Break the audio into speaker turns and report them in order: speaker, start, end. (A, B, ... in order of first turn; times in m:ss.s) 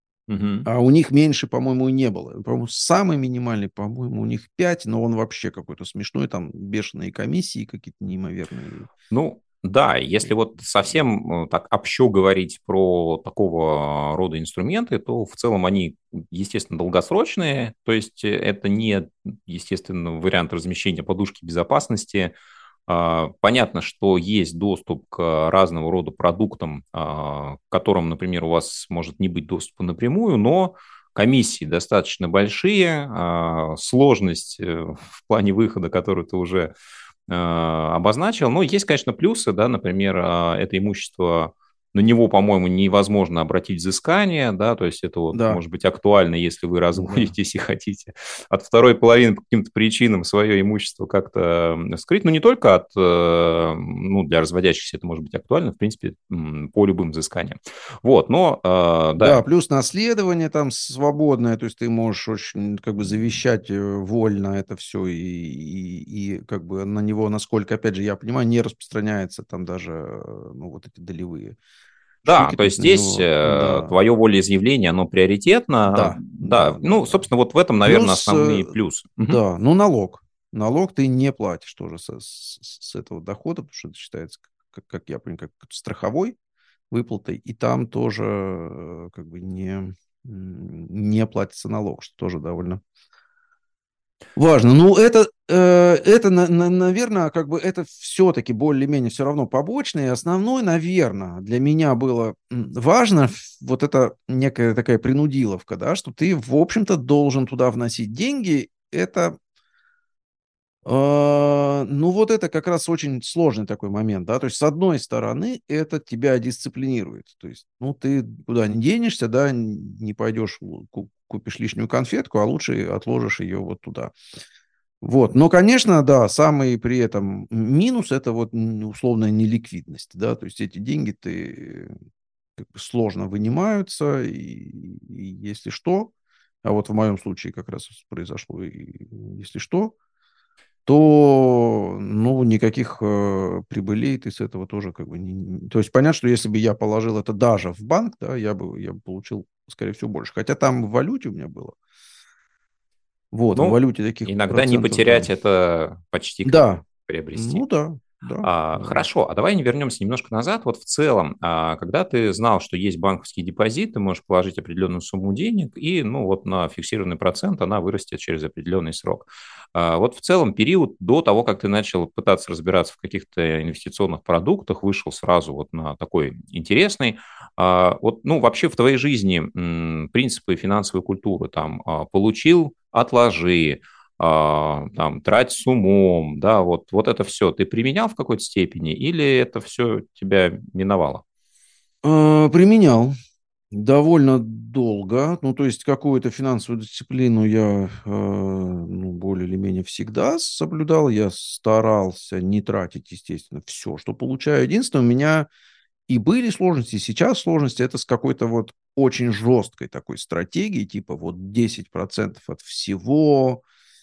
0:00.3-0:00.7 A
0:00.6-0:08.9 B
0:09.1-0:22.3 A
0:22.9-0:36.7 A
0:37.3-0:59.4 A
0:45.3-0:45.6 B
0:47.0-0:47.3 B
0:59.2-1:11.6 B
1:12.2-1:13.9 B
1:12.3-1:19.4 A
1:15.9-1:17.2 B
1:17.8-1:18.7 B
1:19.3-1:26.4 B
1:26.9-1:32.8 B
1:34.4-1:49.4 B
1:50.8-2:04.1 B
2:05.0-2:11.9 B
2:12.6-2:16.1 B
2:16.6-2:19.9 B
2:20.9-2:31.8 B
2:33.3-2:35.3 B
2:33.6-2:37.6 A
2:36.4-2:39.1 B
2:38.4-3:11.2 A
3:12.0-3:13.1 B
3:13.7-3:25.5 B
3:26.1-3:33.6 B